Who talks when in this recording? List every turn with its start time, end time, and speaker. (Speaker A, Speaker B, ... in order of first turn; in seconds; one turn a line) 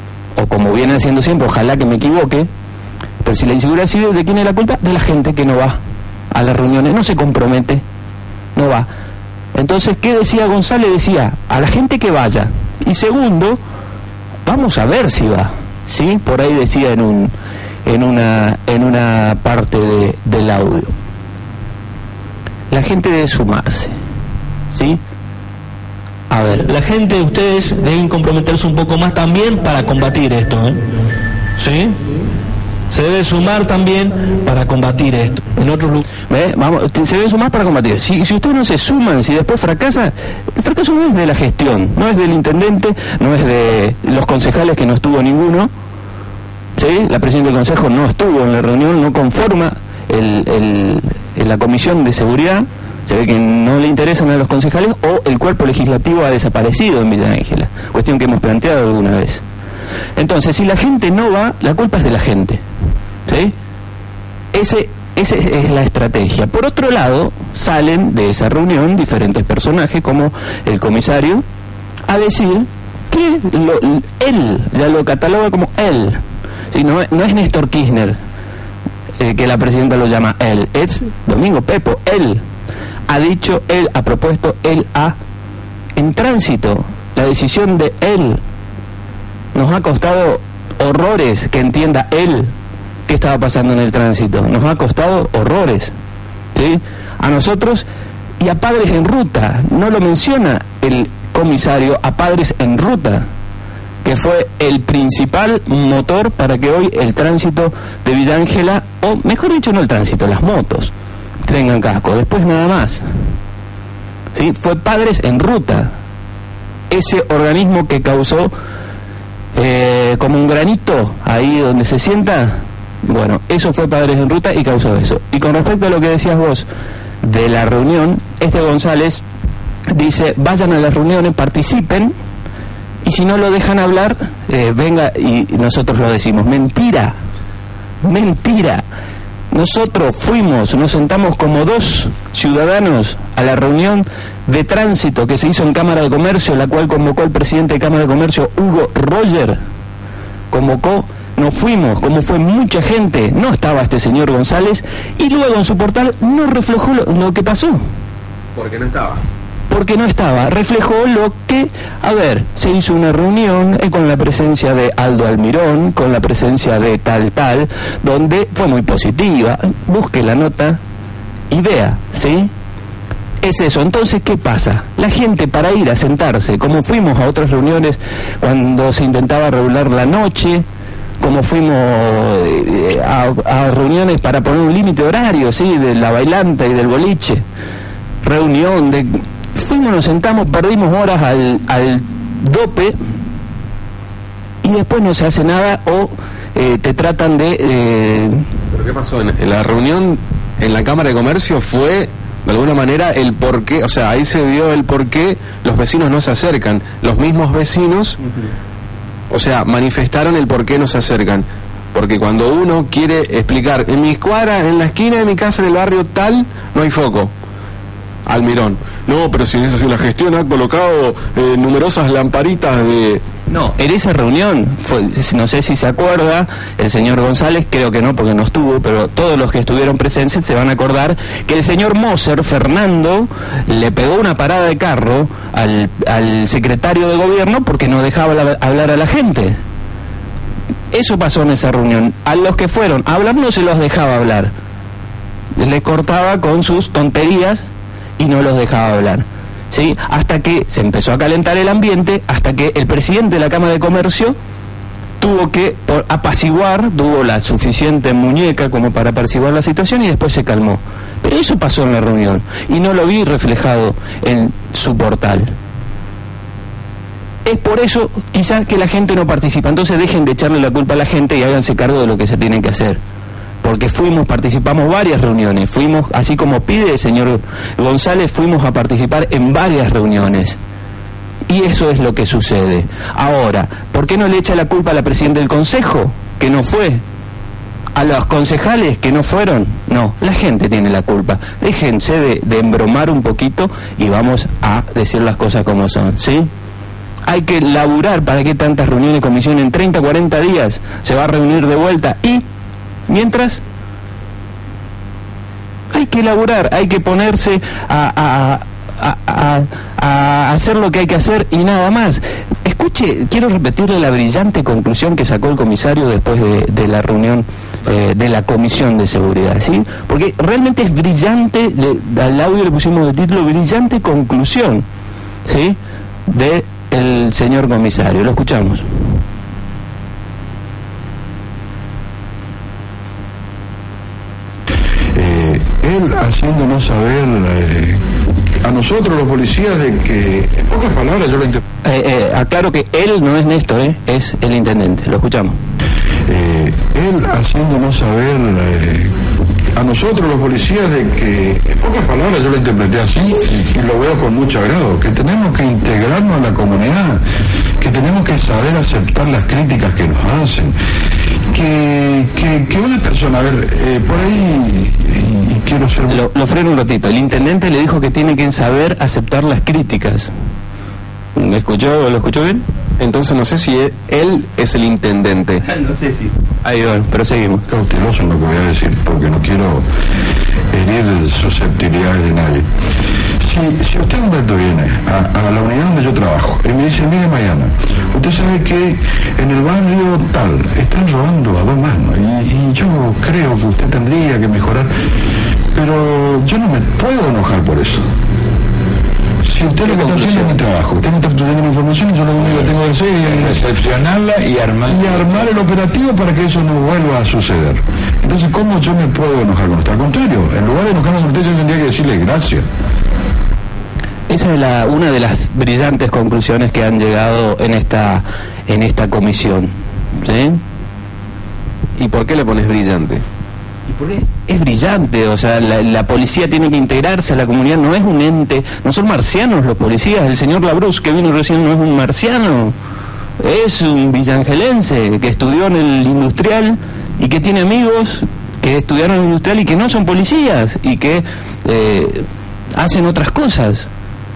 Speaker A: 0.4-2.5
Speaker A: 3.2-5.8
Speaker A: 6.3-7.8
Speaker A: 8.6-8.9
Speaker A: 9.6-13.6
Speaker A: 14.5-17.3
Speaker A: 17.9-20.9
Speaker A: 22.7-23.9
Speaker A: 24.7-25.0
Speaker A: 26.3-26.7
Speaker B: 26.6-30.8
Speaker B: 31.6-32.0
Speaker B: 32.9-36.0
Speaker A: 36.3-45.7
Speaker A: 46.8-59.4
Speaker A: 60.2-62.6
Speaker A: 63.3-63.5
Speaker A: 64.5-71.4
Speaker A: 72.1-78.2
Speaker A: 79.2-82.4
Speaker A: 83.1-85.2
Speaker A: 86.0-88.4
Speaker A: 89.5-92.5
Speaker A: 93.1-95.9
Speaker A: 96.5-97.9
Speaker A: 98.4-103.3
Speaker A: 104.0-110.9
Speaker A: 111.5-113.0
Speaker A: 114.3-116.0
Speaker A: 116.9-118.5
Speaker A: 119.5-126.7
Speaker A: 127.2-129.2
Speaker A: 129.9-132.1
Speaker A: 133.0-137.2
Speaker A: 138.0-138.8
Speaker A: 139.5-149.6
Speaker A: 150.5-157.8
Speaker C: 158.6-159.2
Speaker A: 159.7-170.8
Speaker A: 171.5-172.5
Speaker A: 173.4-180.6
Speaker A: 181.2-187.4
Speaker A: 188.2-193.0
Speaker A: 194.6-198.4
Speaker C: 198.7-208.2
Speaker C: 209.3-217.3
Speaker C: 218.3-223.2
Speaker A: 223.5-239.6
Speaker A: 240.9-244.5
Speaker A: 245.6-247.7
Speaker A: 248.2-254.4
Speaker A: 255.2-265.5
Speaker A: 267.4-273.0
Speaker A: 273.6-280.6
Speaker A: 281.5-287.0
Speaker A: 288.0-296.5
Speaker A: 297.3-302.4
Speaker A: 303.1-303.6
Speaker A: 305.9-324.9
Speaker A: 325.5-329.0
Speaker D: 335.1-338.0
Speaker D: 338.6-341.6
Speaker A: 341.9-345.6
Speaker D: 346.3-349.1
Speaker D: 349.8-357.2
Speaker D: 357.8-360.7
Speaker D: 361.5-366.2
Speaker A: 366.1-370.3
Speaker A: 371.4-372.6
Speaker C: 373.0-375.6
Speaker A: 375.8-377.6
Speaker D: 377.7-379.9
Speaker D: 380.7-382.6
Speaker D: 383.4-394.9
Speaker D: 395.8-398.1
Speaker D: 399.4-403.6
Speaker A: 399.9-400.5
Speaker E: 403.3-405.4
Speaker D: 404.9-412.6
Speaker A: 414.3-420.6
Speaker C: 422.0-423.2
Speaker A: 423.9-432.8
Speaker A: 433.4-443.9